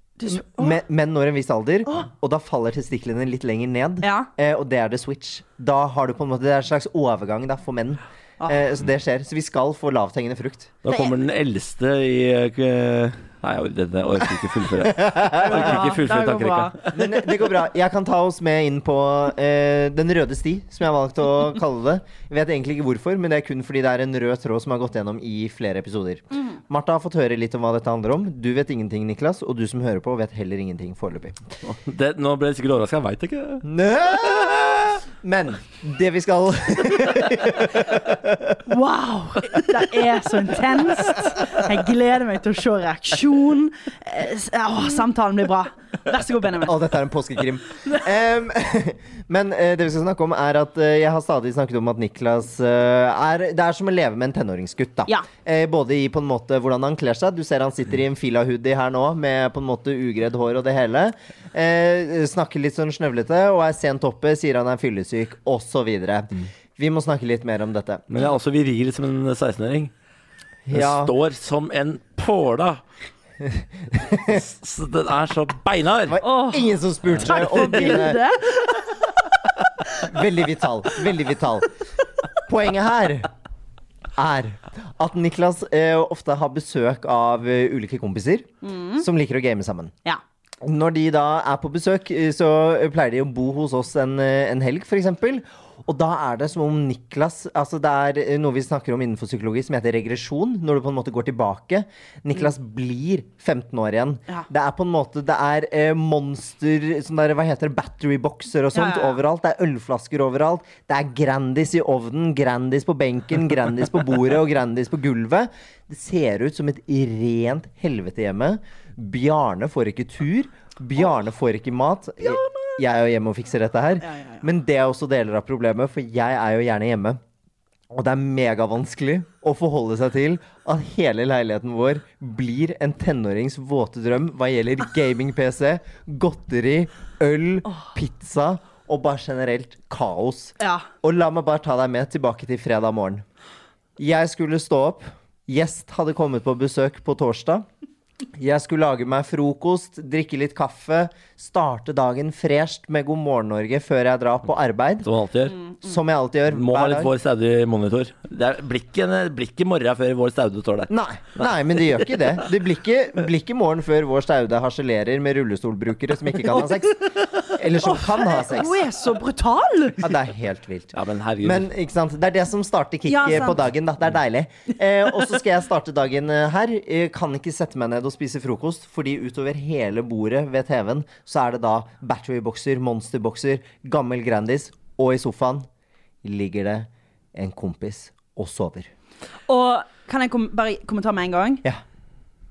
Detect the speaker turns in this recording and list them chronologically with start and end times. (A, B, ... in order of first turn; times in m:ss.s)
0:00.2-0:00.8 A
0:00.3-0:10.8 B
0:04.0-0:04.3 A
0:10.8-0:17.2 C
0:10.9-0:11.1 A
0:15.0-0:15.8 B
0:15.4-0:16.8 A
0:16.9-0:31.4 B
0:31.6-0:33.6 C
0:33.6-0:38.6 B
0:38.7-0:46.8 A
0:46.6-1:08.0 B
1:08.1-1:09.9 C
1:10.7-1:11.1 B
1:10.7-1:12.8 C
1:13.6-1:14.4 B
1:14.3-1:16.2 C
1:16.1-1:18.2 B
1:16.2-1:19.0 A
1:17.1-1:17.6 C
1:20.0-1:21.7 B
1:22.5-1:23.3 B
1:24.2-1:29.9 B
1:28.6-1:29.1 A
1:30.6-2:07.2 B
1:48.8-1:49.2 A
2:02.2-2:02.8 A
2:04.0-2:04.4 A
2:07.9-2:23.2 B
2:20.6-2:20.9 A
2:24.0-2:27.7 B
2:28.4-2:35.1 B
2:35.0-2:35.6 C
2:35.8-2:37.1 B
2:36.5-2:41.5 C
2:40.9-2:48.8 B
2:47.8-2:50.1 A
2:50.0-3:05.7 B
2:50.9-2:51.7 C
2:53.1-2:53.6 A
3:06.2-3:08.9 B
3:09.5-3:11.6 A